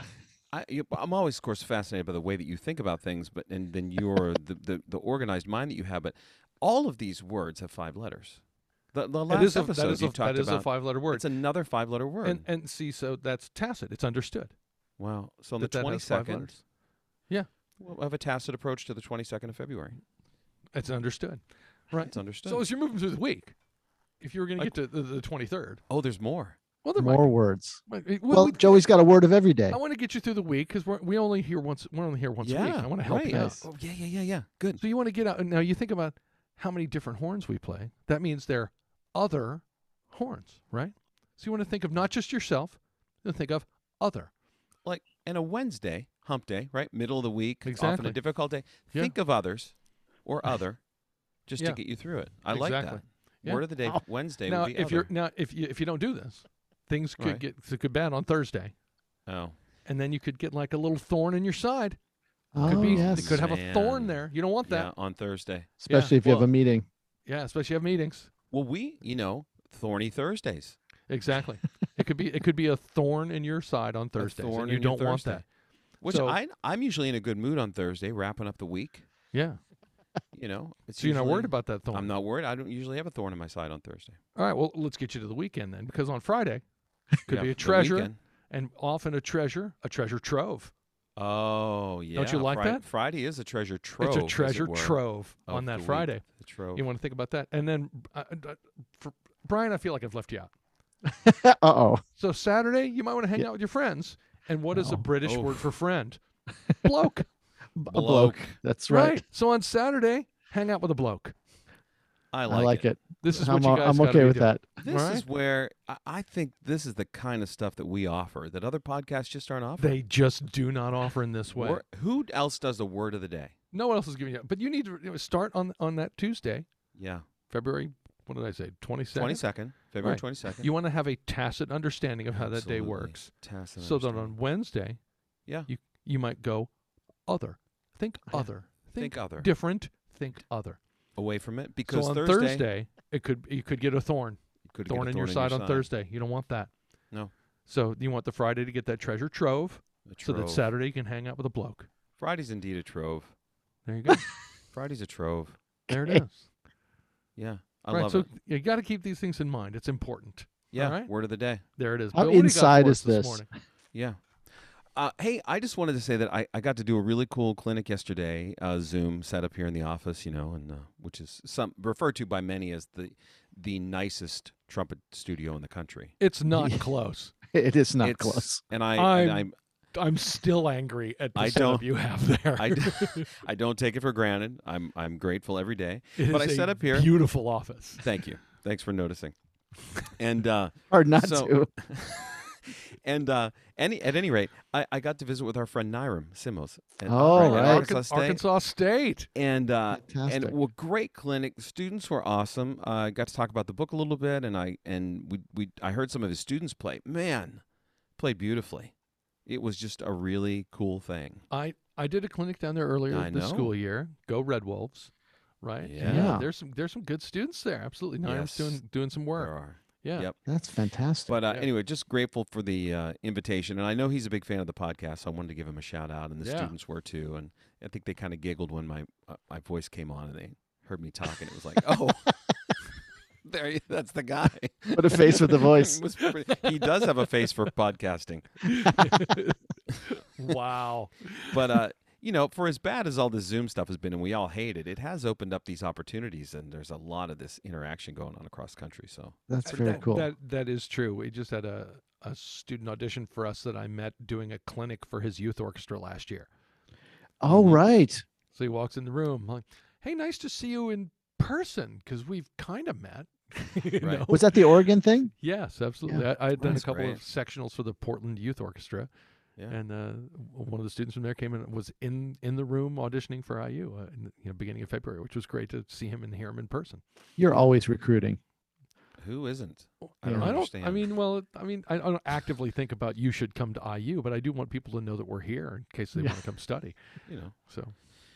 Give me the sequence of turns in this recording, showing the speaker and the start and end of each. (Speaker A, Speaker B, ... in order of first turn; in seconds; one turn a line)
Speaker A: 0.5-8.4
Speaker A: 8.9-12.4
Speaker B: 9.3-11.3
Speaker B: 12.2-14.5
Speaker A: 15.0-16.6
Speaker B: 15.6-16.6
Speaker A: 17.8-20.0
Speaker B: 20.7-23.5
Speaker A: 22.1-22.6
Speaker B: 24.2-25.8
Speaker A: 25.9-26.6
Speaker B: 26.8-27.3
Speaker C: 27.0-29.8
Speaker B: 27.9-28.9
Speaker B: 29.7-33.6
Speaker A: 32.4-34.8
Speaker B: 34.8-44.3
Speaker A: 44.8-50.8
Speaker B: 47.6-48.2
Speaker B: 48.7-49.1
Speaker A: 51.5-55.1
Speaker B: 52.5-53.6
Speaker B: 54.5-58.7
Speaker A: 57.2-57.4
Speaker A: 59.3-59.5
Speaker B: 59.9-62.0
Speaker C: 62.5-63.4
Speaker B: 62.6-64.9
Speaker A: 62.6-66.4
Speaker C: 65.8-66.9
Speaker B: 65.9-66.2
Speaker B: 67.2-68.3
Speaker A: 68.5-70.8
Speaker B: 71.1-75.5
Speaker A: 74.2-75.4
Speaker A: 76.0-79.1
Speaker B: 76.0-76.4
Speaker B: 79.3-79.6
Speaker A: 80.3-84.2
Speaker B: 81.0-82.1
Speaker B: 84.3-86.6
Speaker B: 87.2-90.7
Speaker A: 87.3-88.2
Speaker A: 91.2-96.8
Speaker B: 92.1-92.8
Speaker B: 94.0-96.2
Speaker B: 96.7-100.5
Speaker C: 101.1-102.0
Speaker B: 102.2-106.2
Speaker C: 104.7-105.0
Speaker A: 105.2-105.6
Speaker B: 106.8-107.3
Speaker C: 107.8-109.2
Speaker A: 107.9-108.5
Speaker B: 108.9-111.3
Speaker A: 112.3-112.9
Speaker C: 112.5-114.7
Speaker B: 113.2-115.2
Speaker A: 114.8-120.0
Speaker B: 119.8-121.8
Speaker A: 121.5-123.5
Speaker B: 123.7-126.7
Speaker A: 126.9-127.2
Speaker B: 127.5-129.4
Speaker A: 129.1-130.7
Speaker B: 130.0-135.0
Speaker A: 132.3-134.3
Speaker B: 135.7-136.7
Speaker B: 137.2-140.8
Speaker A: 139.0-139.5
Speaker A: 141.2-142.6
Speaker B: 141.9-146.7
Speaker A: 144.7-145.9
Speaker B: 147.7-151.9
Speaker A: 150.1-150.7
Speaker A: 152.2-153.3
Speaker B: 153.8-154.3
Speaker A: 154.7-155.6
Speaker B: 155.9-156.5
Speaker C: 155.9-156.2
Speaker A: 157.3-158.3
Speaker B: 157.9-161.1
Speaker A: 160.7-161.6
Speaker B: 161.8-163.5
Speaker C: 162.1-163.5
Speaker A: 164.9-176.2
Speaker B: 176.2-177.3
Speaker C: 176.5-176.8
Speaker C: 177.5-178.6
Speaker A: 178.0-179.5
Speaker B: 178.9-183.2
Speaker A: 181.3-181.9
Speaker A: 182.4-187.1
Speaker B: 186.2-188.1
Speaker A: 188.0-189.3
Speaker A: 190.0-198.4
Speaker C: 190.9-191.7
Speaker C: 197.1-197.9
Speaker B: 197.3-199.3
Speaker A: 199.3-207.6
Speaker C: 199.9-200.5
Speaker A: 208.2-208.9
Speaker A: 209.4-211.4
Speaker B: 211.5-215.1
Speaker A: 213.1-213.7
Speaker B: 215.6-220.3
Speaker A: 215.8-216.4
Speaker C: 216.0-216.5
Speaker A: 218.2-218.8
Speaker A: 219.3-220.4
Speaker C: 220.4-221.3
Speaker A: 221.3-232.8
Speaker B: 226.4-226.7
Speaker A: 233.4-238.9
Speaker C: 234.9-236.0
Speaker B: 236.2-237.1
Speaker B: 238.6-241.5
Speaker A: 241.5-249.4
Speaker C: 249.5-250.3
Speaker B: 249.6-256.5
Speaker C: 257.4-258.2
Speaker A: 257.5-257.8
Speaker B: 258.5-264.6
Speaker A: 264.0-264.2
Speaker C: 264.3-265.3
Speaker B: 265.4-269.1
Speaker A: 266.6-267.2
Speaker B: 269.7-277.0
Speaker C: 277.4-278.4
Speaker A: 279.2-281.1
Speaker B: 280.0-286.9
Speaker C: 280.2-280.5
Speaker A: 287.3-287.5
Speaker B: 287.5-287.9